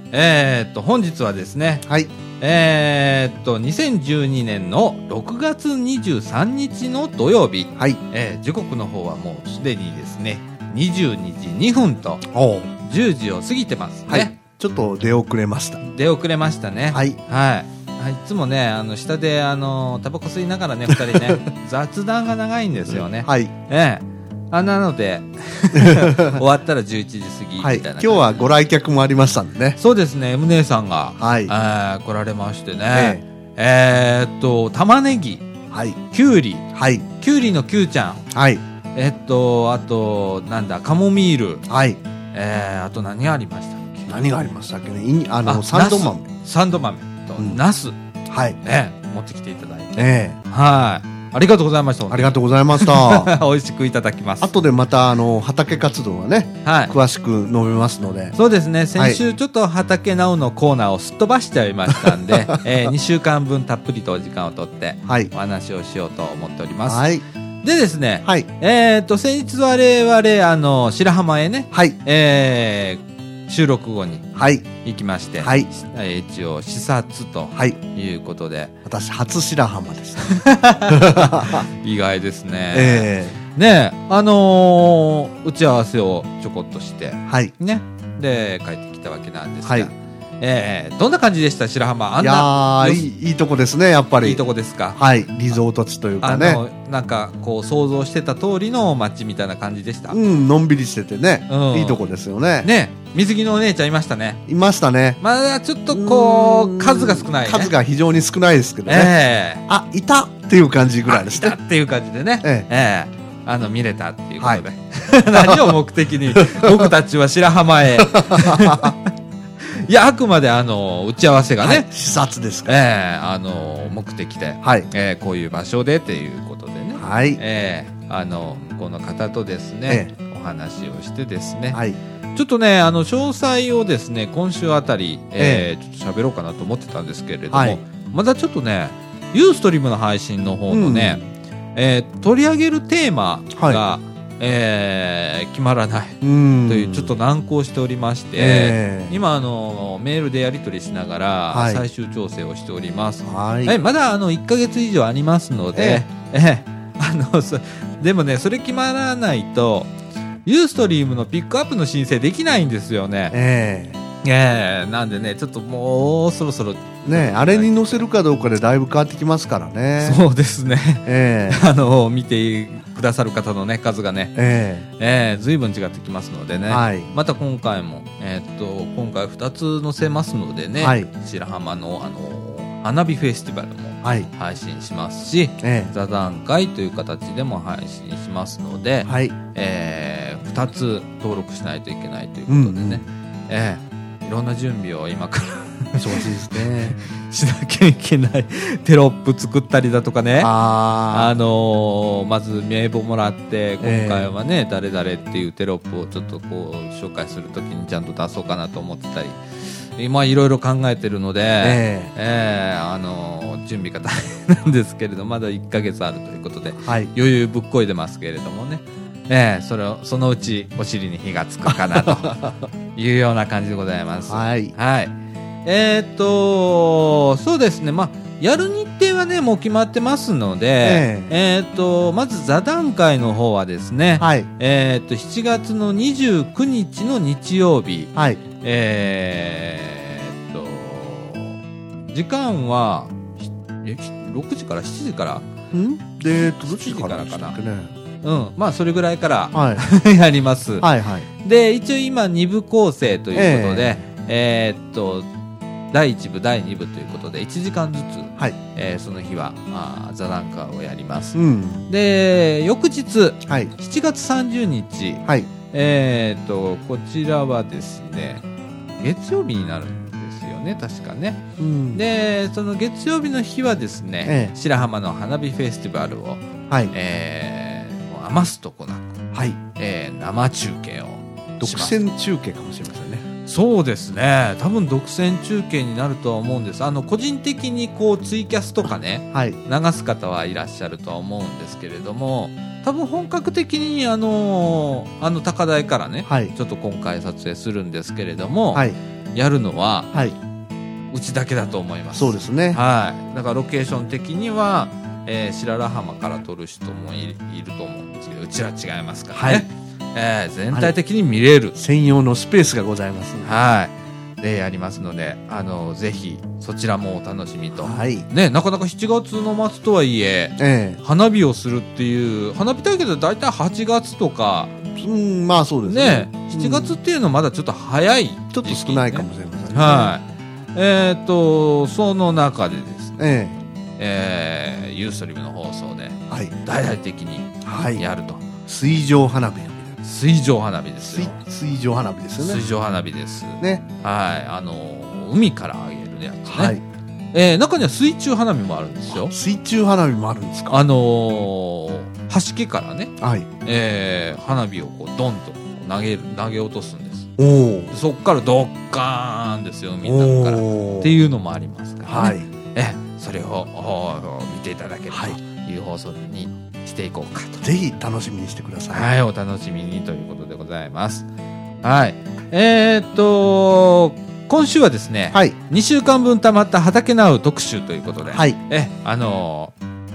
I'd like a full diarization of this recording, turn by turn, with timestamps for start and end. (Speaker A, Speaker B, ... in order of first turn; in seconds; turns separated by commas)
Speaker A: 0.1-1.9, Speaker B: 1.9-2.1, Speaker A: 2.4-12.2, Speaker B: 12.3-12.7, Speaker A: 12.8-14.3, Speaker B: 14.1-15.8, Speaker A: 15.8-28.4, Speaker B: 16.9-17.2, Speaker B: 20.9-21.4, Speaker B: 22.9-23.5, Speaker B: 25.7-26.4, Speaker B: 27.6-29.8, Speaker A: 29.8-35.5, Speaker B: 31.2-31.5, Speaker B: 32.9-33.2, Speaker B: 35.7-36.0, Speaker A: 36.1-36.7, Speaker B: 36.7-37.1, Speaker A: 37.2-38.2, Speaker B: 38.3-38.6, Speaker A: 39.0-41.6, Speaker B: 41.7-42.0, Speaker A: 42.3-44.1, Speaker B: 44.1-46.3, Speaker A: 45.5-48.0, Speaker B: 48.3-48.6, Speaker A: 48.6-54.5, Speaker B: 50.0-50.4, Speaker B: 52.1-53.3, Speaker B: 54.4-58.4, Speaker A: 56.6-56.9, Speaker A: 58.4-67.1, Speaker B: 59.0-59.2, Speaker B: 62.0-62.6, Speaker B: 65.0-65.3, Speaker B: 66.9-67.2, Speaker A: 67.6-78.7, Speaker B: 71.7-72.0, Speaker B: 74.3-74.7, Speaker B: 75.4-75.7, Speaker B: 78.8-81.7, Speaker A: 80.2-93.0, Speaker B: 82.7-83.4, Speaker B: 87.3-87.5, Speaker B: 89.7-89.9, Speaker B: 92.2-94.4, Speaker A: 94.2-95.0, Speaker B: 95.0-96.6, Speaker A: 96.2-100.2, Speaker B: 100.1-102.7, Speaker A: 101.5-102.0, Speaker A: 102.6-104.4, Speaker B: 104.5-105.2, Speaker A: 105.2-107.7, Speaker B: 105.9-109.1, Speaker A: 108.9-109.6, Speaker B: 109.7-111.6, Speaker A: 111.1-119.1, Speaker B: 115.3-115.8, Speaker B: 116.3-116.9, Speaker B: 118.0-119.0, Speaker A: 119.6-121.9, Speaker B: 121.6-122.8, Speaker A: 122.7-131.8, Speaker B: 124.6-124.9, Speaker B: 127.0-127.4, Speaker B: 131.7-132.0, Speaker A: 132.3-141.2, Speaker B: 135.4-135.7, Speaker B: 137.5-137.8, Speaker B: 140.7-141.3, Speaker A: 141.8-159.9, Speaker B: 143.6-143.8, Speaker B: 146.2-147.2, Speaker B: 148.4-149.2, Speaker B: 151.5-151.8, Speaker B: 153.3-153.8, Speaker B: 155.7-156.0, Speaker A: 160.5-163.4, Speaker B: 163.3-164.0, Speaker A: 164.2-168.0, Speaker B: 167.1-170.2, Speaker A: 170.0-174.4, Speaker B: 171.1-171.7, Speaker B: 174.3-174.9, Speaker A: 175.0-200.5, Speaker B: 176.7-177.1, Speaker B: 180.8-181.1, Speaker B: 184.0-184.3, Speaker B: 185.6-185.9, Speaker B: 189.1-189.4, Speaker B: 192.5-193.0, Speaker B: 196.0-197.0, Speaker B: 200.4-201.4, Speaker A: 201.1-225.1, Speaker B: 203.8-204.3, Speaker B: 211.6-212.1, Speaker B: 216.8-217.1, Speaker B: 221.7-222.5, Speaker B: 224.3-224.7, Speaker A: 225.7-245.5, Speaker B: 230.8-231.3, Speaker B: 234.2-234.5, Speaker B: 238.2-238.4, Speaker B: 245.7-247.9, Speaker A: 246.6-247.6, Speaker A: 248.2-250.9, Speaker B: 249.5-249.8, Speaker B: 250.8-251.3, Speaker A: 251.4-255.3, Speaker B: 253.3-254.0, Speaker A: 255.9-268.4, Speaker B: 261.3-261.9, Speaker B: 263.4-263.7, Speaker A: 269.0-279.1, Speaker B: 271.6-272.0, Speaker B: 274.2-274.6, Speaker B: 276.7-276.9, Speaker B: 279.3-279.6, Speaker A: 279.8-282.0, Speaker B: 281.6-283.2, Speaker A: 283.5-300.1, Speaker B: 289.3-289.6, Speaker B: 296.3-296.5, Speaker A: 301.1-311.8, Speaker B: 302.1-302.8, Speaker B: 309.3-309.7, Speaker B: 311.8-313.6, Speaker A: 313.4-324.7, Speaker B: 317.8-318.3, Speaker B: 320.6-321.0, Speaker B: 325.0-327.0, Speaker A: 325.9-333.2, Speaker B: 328.5-330.1, Speaker B: 333.2-333.6, Speaker A: 334.0-338.5, Speaker B: 337.6-338.0, Speaker B: 338.7-340.0, Speaker A: 340.0-341.4, Speaker B: 341.0-342.6, Speaker A: 342.4-346.8, Speaker B: 343.6-343.9, Speaker B: 346.5-346.8, Speaker A: 347.3-349.3, Speaker B: 349.1-350.8, Speaker A: 350.7-353.1, Speaker B: 353.2-353.5, Speaker A: 353.6-357.3, Speaker B: 357.4-357.9, Speaker A: 357.9-367.6, Speaker B: 360.0-361.1, Speaker B: 362.1-362.5, Speaker B: 365.1-365.4, Speaker B: 367.6-369.1, Speaker A: 368.9-371.3, Speaker A: 371.8-379.7, Speaker B: 378.3-378.6